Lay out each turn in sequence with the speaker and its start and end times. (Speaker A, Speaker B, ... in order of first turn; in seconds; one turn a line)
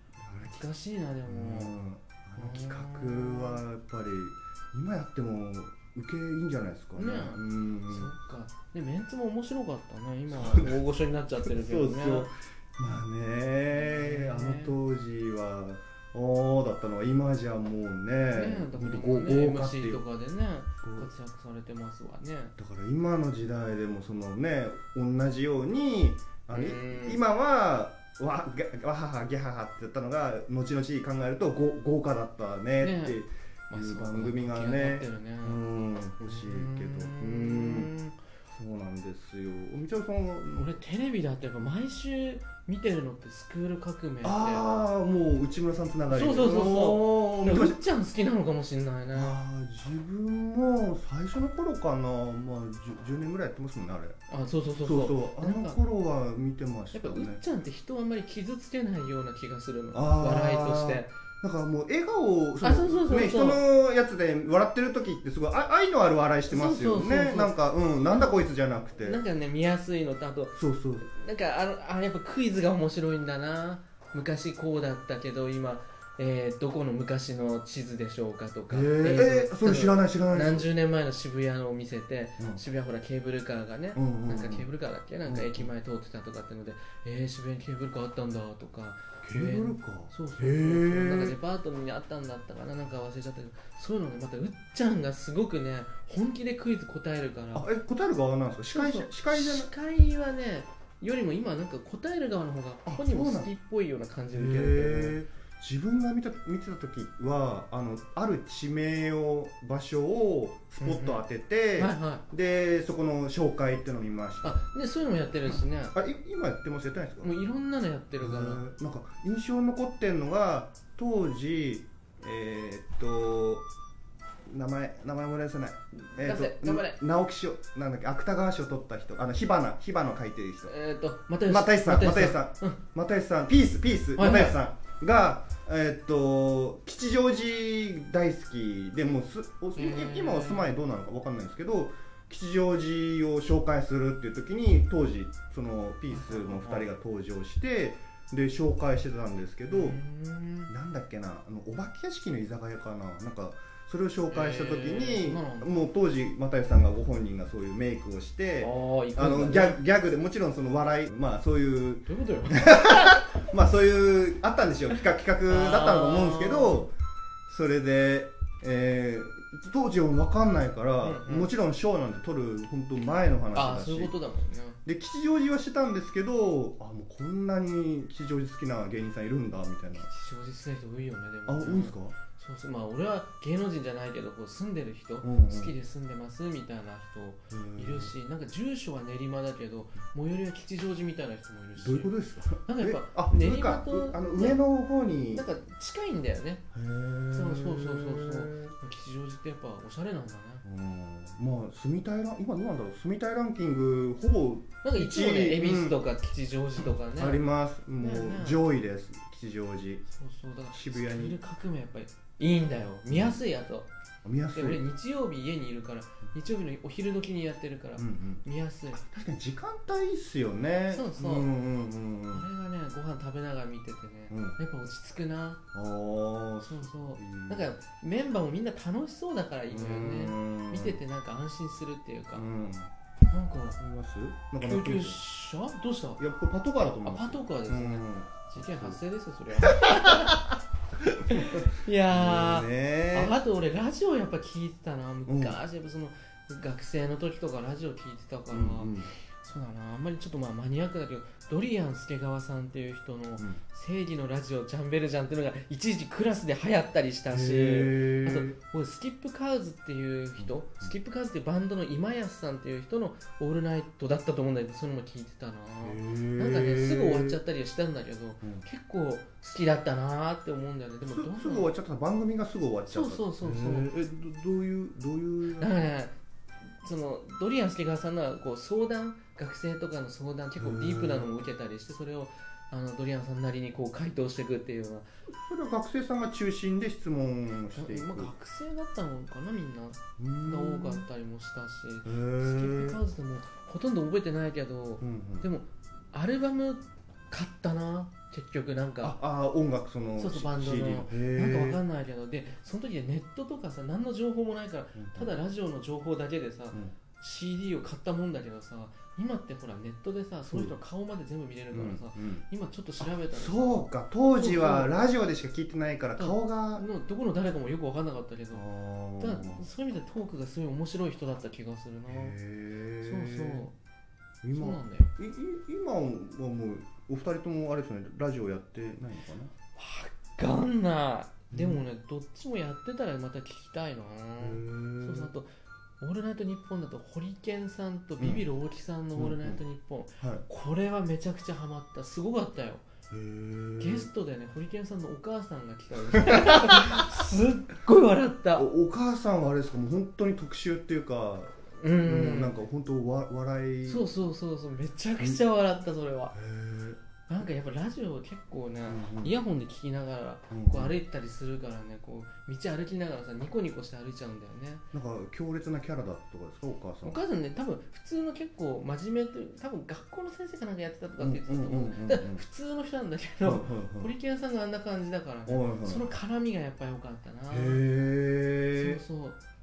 Speaker A: 0.2-0.6
Speaker B: 0.4-1.7
Speaker A: 1.3-8.1
Speaker B: 2.4-3.6
Speaker B: 7.0-12.3
Speaker A: 10.3-10.8
Speaker A: 11.4-20.0
Speaker B: 13.7-14.8
Speaker B: 18.3-22.5
Speaker A: 20.8-21.1
Speaker A: 22.6-37.9
Speaker B: 26.5-27.2
Speaker B: 32.8-33.2
Speaker B: 33.7-35.6
Speaker B: 36.2-38.2
Speaker A: 38.5-40.8
Speaker B: 40.5-44.7
Speaker A: 44.2-47.8
Speaker B: 46.1-49.4
Speaker A: 49.1-54.2
Speaker B: 54.3-55.8
Speaker A: 54.8-57.4
Speaker B: 56.9-61.1
Speaker A: 59.9-69.2
Speaker B: 62.6-63.6
Speaker B: 66.5-67.5
Speaker B: 69.0-97.7
Speaker A: 70.5-71.1
Speaker A: 78.7-80.7
Speaker A: 83.9-84.7
Speaker A: 85.2-85.7
Speaker A: 89.2-91.4
Speaker A: 97.5-99.7
Speaker B: 98.7-105.2
Speaker A: 102.9-103.5
Speaker A: 104.3-114.7
Speaker B: 110.8-111.2
Speaker B: 111.8-112.2
Speaker B: 114.4-115.9
Speaker A: 115.5-117.3
Speaker B: 117.2-118.6
Speaker A: 118.2-123.6
Speaker A: 124.5-130.7
Speaker B: 126.2-127.0
Speaker B: 130.6-132.8
Speaker A: 131.4-150.0
Speaker B: 134.2-134.6
Speaker B: 139.8-140.8
Speaker B: 146.1-146.9
Speaker B: 149.7-150.7
Speaker A: 150.7-166.9
Speaker B: 154.3-155.7
Speaker B: 158.6-159.8
Speaker B: 162.1-163.3
Speaker B: 165.5-166.9
Speaker A: 167.5-174.1
Speaker B: 171.0-171.5
Speaker B: 173.5-174.8
Speaker A: 174.8-180.1
Speaker B: 179.9-194.7
Speaker A: 181.5-182.2
Speaker A: 185.2-185.7
Speaker A: 187.5-188.1
Speaker A: 191.8-195.5
Speaker B: 195.3-196.6
Speaker A: 196.7-198.7
Speaker B: 197.3-200.6
Speaker A: 200.6-206.0
Speaker B: 204.8-207.4
Speaker A: 207.1-210.0
Speaker B: 207.9-208.6
Speaker B: 210.1-213.9
Speaker A: 210.7-211.4
Speaker A: 213.1-213.4
Speaker A: 214.2-214.9
Speaker B: 214.5-219.1
Speaker A: 218.0-218.4
Speaker A: 219.1-222.5
Speaker B: 220.9-221.5
Speaker B: 222.3-225.6
Speaker A: 224.3-224.6
Speaker A: 225.7-227.7
Speaker B: 226.6-232.5
Speaker A: 229.7-231.0
Speaker A: 232.3-232.9
Speaker B: 233.3-233.8
Speaker A: 233.8-235.2
Speaker B: 234.6-236.2
Speaker A: 236.2-239.0
Speaker B: 236.8-240.5
Speaker A: 239.6-243.3
Speaker B: 241.3-271.7
Speaker A: 245.2-245.6
Speaker A: 248.5-249.1
Speaker A: 257.3-258.6
Speaker A: 260.4-260.9
Speaker A: 265.8-267.4
Speaker A: 271.0-275.8
Speaker B: 272.9-273.9
Speaker B: 275.5-276.1
Speaker B: 276.8-285.1
Speaker A: 280.6-281.4
Speaker A: 285.3-288.3
Speaker B: 287.7-299.2
Speaker A: 290.2-291.1
Speaker A: 292.0-293.0
Speaker A: 295.0-295.5
Speaker A: 299.0-301.8
Speaker B: 300.2-314.9
Speaker A: 304.9-305.3
Speaker A: 310.5-310.7
Speaker A: 311.7-312.4
Speaker A: 313.0-316.9
Speaker B: 316.2-318.6
Speaker A: 318.5-319.6
Speaker B: 319.2-322.3
Speaker A: 322.1-323.6
Speaker B: 323.0-323.7
Speaker A: 324.4-329.5
Speaker B: 324.5-325.1
Speaker B: 329.7-335.5
Speaker A: 331.5-331.8
Speaker A: 334.4-335.3
Speaker B: 336.0-342.9
Speaker A: 338.2-338.4
Speaker A: 339.1-339.6
Speaker A: 343.1-344.1
Speaker B: 343.8-348.7
Speaker A: 346.2-347.1
Speaker A: 348.6-354.1
Speaker B: 351.8-352.5
Speaker B: 353.8-356.3
Speaker A: 356.3-357.0
Speaker B: 357.3-364.9
Speaker A: 358.9-359.4
Speaker A: 360.5-361.0
Speaker A: 364.9-367.2
Speaker B: 367.0-377.8
Speaker A: 371.2-372.4
Speaker A: 373.4-374.1
Speaker A: 375.5-376.1
Speaker A: 377.5-379.0
Speaker B: 378.8-379.4